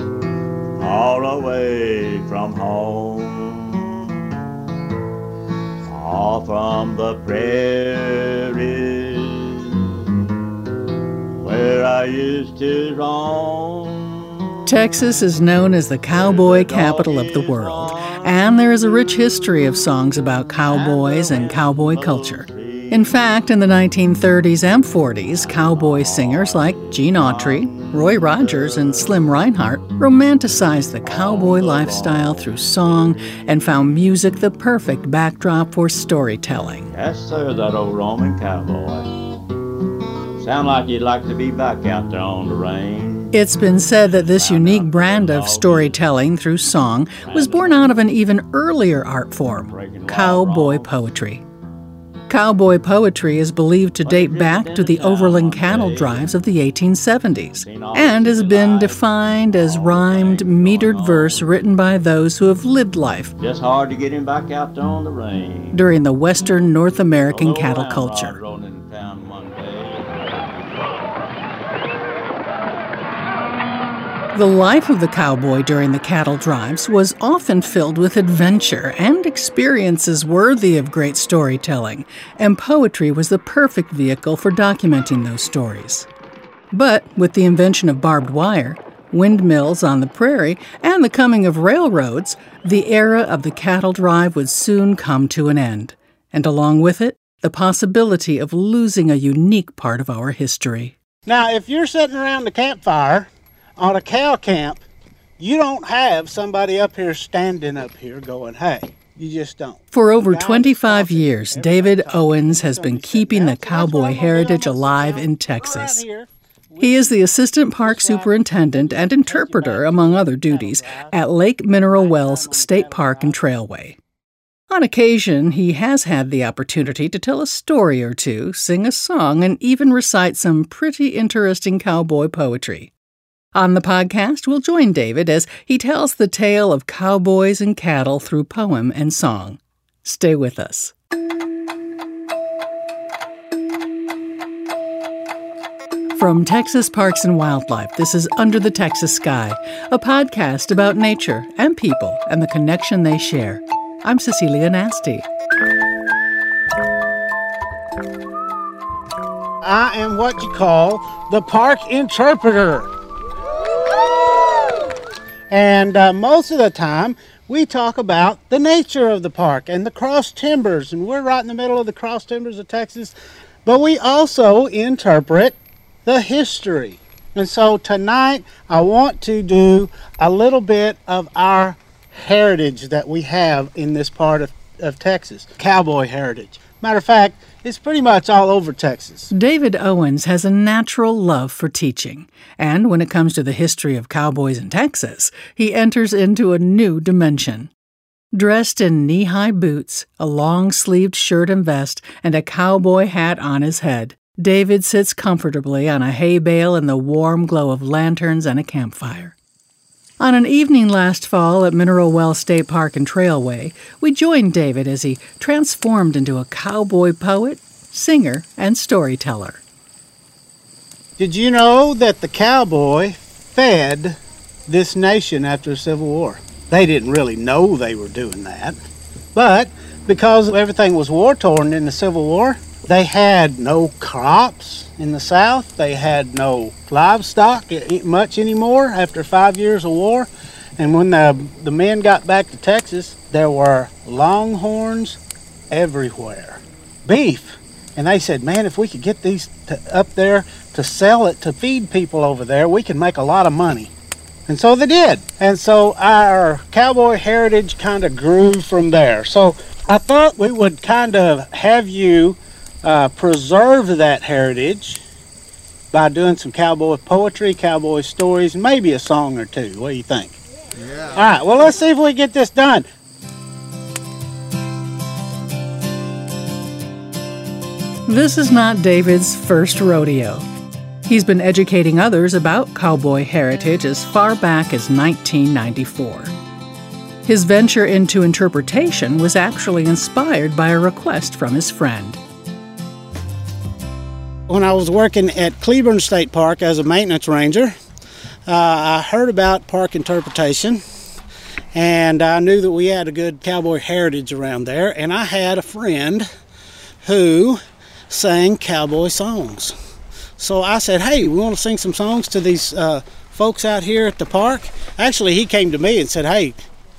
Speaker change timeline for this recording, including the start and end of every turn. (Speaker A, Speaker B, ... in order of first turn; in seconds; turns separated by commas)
Speaker A: 0.8-3.8, Speaker A: 5.9-9.8, Speaker A: 11.4-14.3, Speaker B: 14.7-36.9, Speaker A: 16.1-18.3, Speaker A: 20.6-23.1, Speaker A: 25.3-29.3, Speaker A: 31.0-33.5, Speaker A: 36.9-39.2, Speaker A: 40.4-43.4, Speaker B: 43.3-51.4, Speaker A: 43.9-46.0, Speaker A: 47.2-48.0, Speaker A: 49.7-50.9, Speaker B: 52.3-63.3, Speaker A: 54.0-56.3, Speaker A: 57.5-61.5, Speaker A: 63.4-65.8, Speaker B: 65.7-68.4, Speaker A: 67.3-71.4, Speaker B: 74.3-86.1, Speaker B: 86.7-100.9, Speaker C: 101.2-104.8, Speaker C: 105.4-117.2, Speaker B: 109.9-116.0, Speaker B: 116.8-124.0, Speaker C: 117.8-123.4, Speaker B: 124.7-132.9, Speaker B: 133.5-140.9, Speaker B: 146.1-155.2, Speaker C: 159.6-162.9, Speaker C: 165.5-189.3, Speaker B: 189.3-197.7, Speaker B: 198.3-209.3, Speaker B: 210.2-219.6, Speaker C: 221.2-228.8, Speaker C: 229.3-245.2, Speaker C: 245.7-253.9, Speaker C: 254.5-265.0, Speaker C: 265.9-270.4, Speaker C: 271.1-272.9, Speaker B: 278.1-280.4, Speaker B: 281.1-286.3, Speaker B: 287.2-292.2, Speaker C: 294.5-297.8, Speaker C: 298.5-300.8, Speaker C: 301.8-306.3, Speaker C: 307.0-309.8, Speaker C: 310.4-316.6